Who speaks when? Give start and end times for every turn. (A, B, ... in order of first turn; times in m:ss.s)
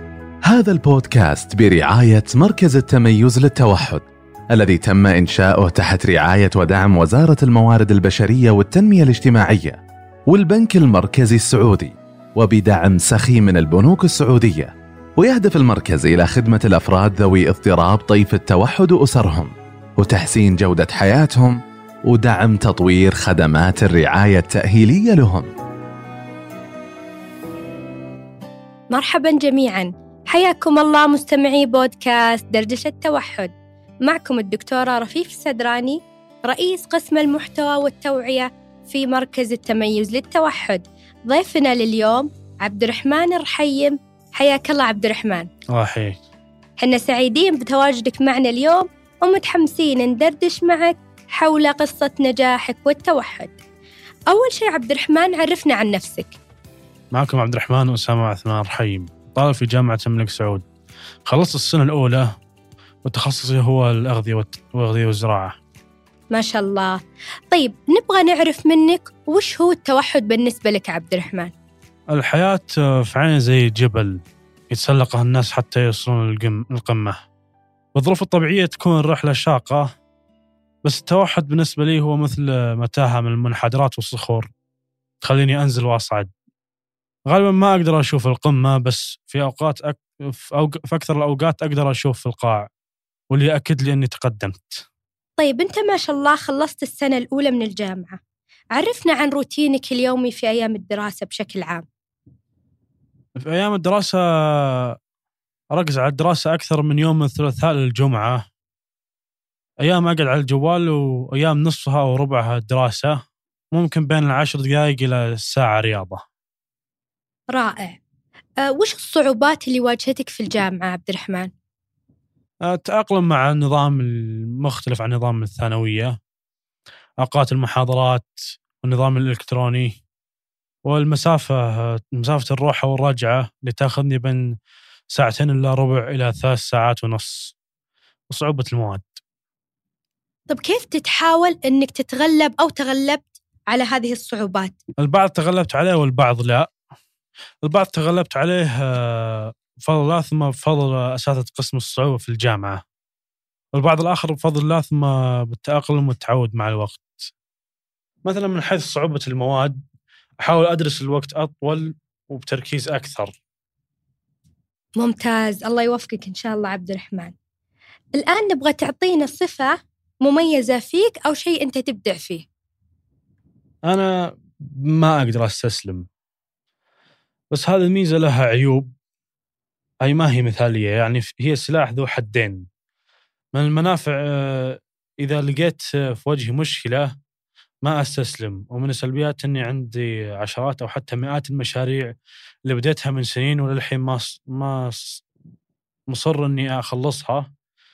0:00.4-0:25.5 A
0:28.9-0:33.5 B
0:34.0-0:45.5 B
0:45.7-0:46.2 C
0:46.8-0:53.6 B
0:54.3-0:56.3 B
0:57.1-1:00.6 C
1:01.3-1:02.3 C
1:03.0-1:05.6 C
1:06.3-1:07.0 B
1:07.5-1:11.5 B
1:12.1-1:17.2 C
1:17.9-1:19.9 C
1:20.8-1:24.5 C
1:25.2-1:26.3 C
1:27.2-1:32.7 C
1:33.3-1:34.8 C
1:35.4-1:38.2 B
1:38.7-1:41.8 B
1:43.4-1:45.0 C
1:45.7-1:48.4 C
1:49.8-1:53.2 C
1:53.7-1:56.2 C
1:57.5-1:58.0 B
1:58.6-2:01.5 B
2:02.6-2:06.2 C
2:07.2-2:10.0 C
2:10.8-2:14.5 C
2:15.1-2:17.5 C
2:18.3-2:19.2 C
2:20.5-2:24.8 B
2:25.0-2:26.7 C
2:27.6-2:32.8 C
2:33.7-2:37.3 C
2:38.2-2:39.8 C
2:40.4-2:43.4 C
2:45.0-2:47.3 B
2:48.2-2:52.4 B
2:53.8-2:56.0 C
2:57.5-2:58.9 C
3:00.0-3:02.6 C
3:03.5-3:07.1 C
3:07.8-3:12.1 C
3:12.6-3:15.2 C
3:16.1-3:17.5 C